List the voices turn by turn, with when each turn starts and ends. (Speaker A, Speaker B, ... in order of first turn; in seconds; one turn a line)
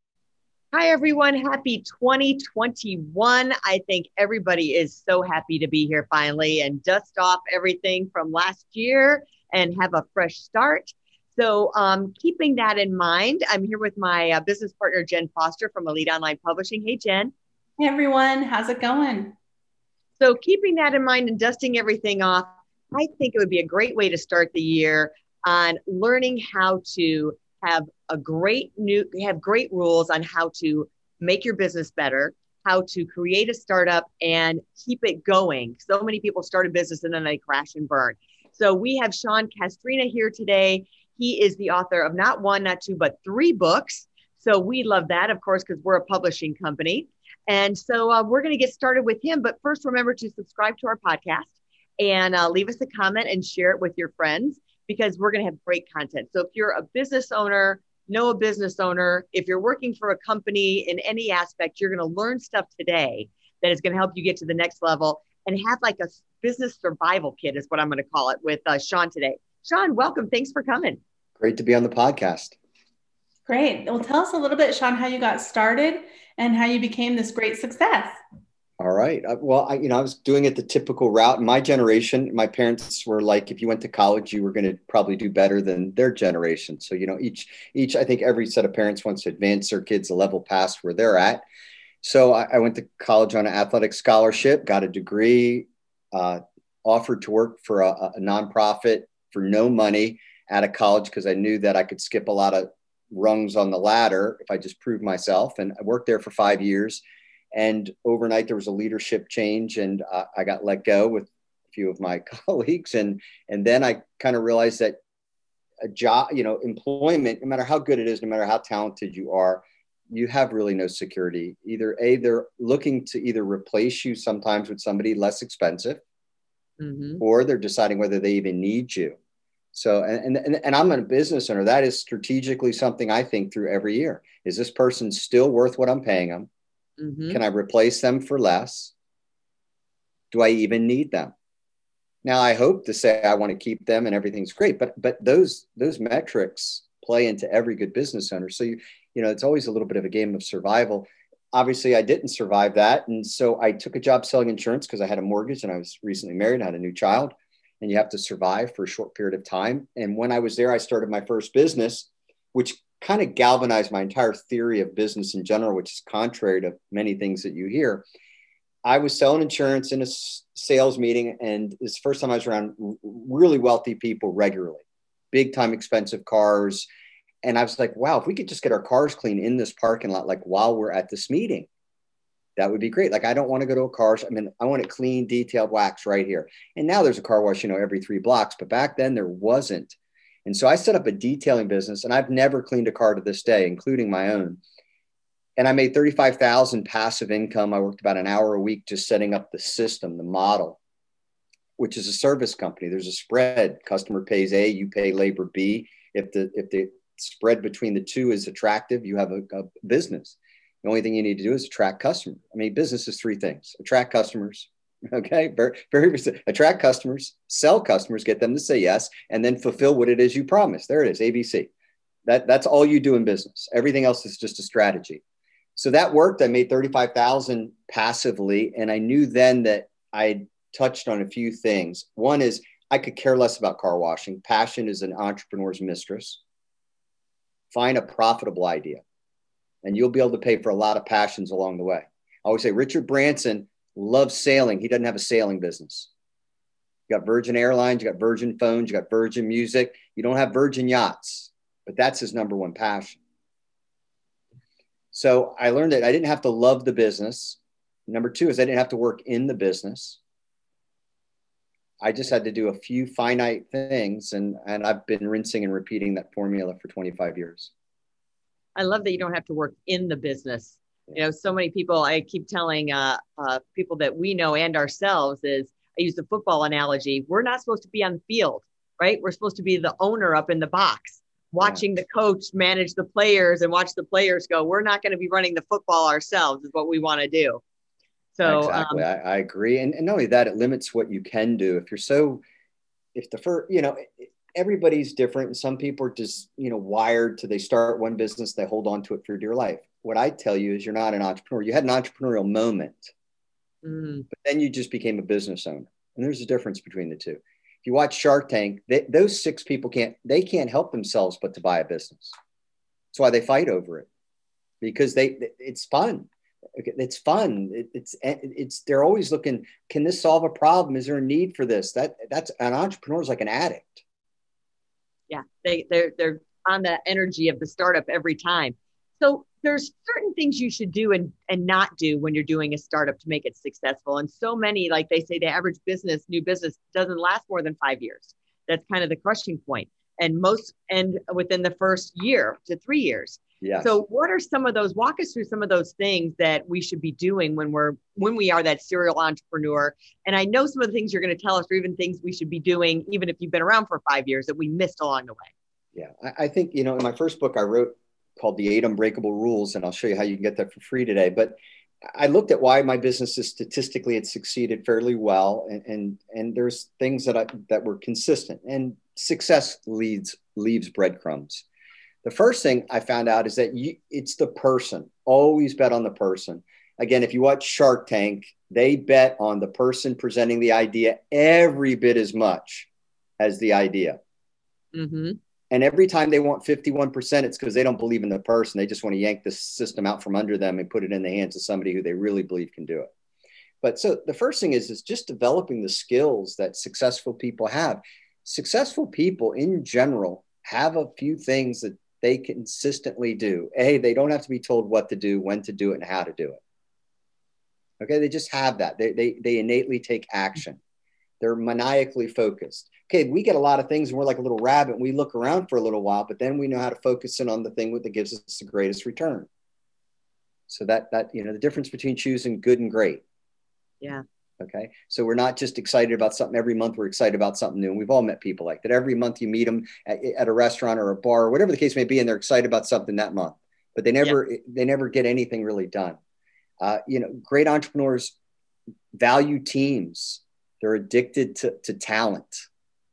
Speaker A: 0.7-17.3
Speaker B: 17.8-19.3
Speaker A: 20.2-71.0
Speaker C: 71.4-72.6
Speaker B: 73.5-78.1
Speaker C: 78.8-91.4
Speaker C: 92.0-115.0
Speaker C: 115.8-126.0
Speaker A: 126.8-127.2
Speaker C: 127.2-129.2
Speaker C: 129.7-136.5
Speaker A: 137.0-137.4
Speaker C: 137.3-138.9
Speaker C: 140.3-141.3
Speaker C: 142.2-168.1
Speaker C: 168.8-176.9
Speaker C: 177.4-181.7
Speaker C: 182.6-194.6
Speaker C: 195.6-200.8
Speaker C: 201.8-221.7
Speaker C: 222.2-225.2
Speaker C: 225.8-236.4
Speaker C: 237.7-239.0
Speaker C: 239.8-246.1
Speaker C: 247.1-253.2
Speaker C: 255.1-260.2
Speaker C: 262.0-267.7
Speaker A: 268.8-287.6
Speaker C: 281.6-281.9
Speaker A: 288.4-289.1
Speaker C: 288.4-292.4
Speaker C: 293.1-303.1
Speaker A: 303.8-304.3
Speaker C: 304.3-312.4
Speaker C: 313.1-314.1
Speaker C: 314.8-324.0
Speaker A: 325.3-355.5
Speaker C: 343.6-344.0
Speaker C: 355.9-361.6
Speaker C: 362.1-371.6
Speaker C: 372.2-382.9
Speaker C: 383.4-384.2
Speaker A: 384.9-385.4
Speaker C: 385.7-393.1
Speaker C: 393.8-406.6
Speaker C: 408.0-410.8
Speaker C: 411.4-419.5
Speaker C: 420.7-423.2
Speaker C: 424.6-436.2
Speaker C: 436.8-438.4
Speaker C: 439.1-442.7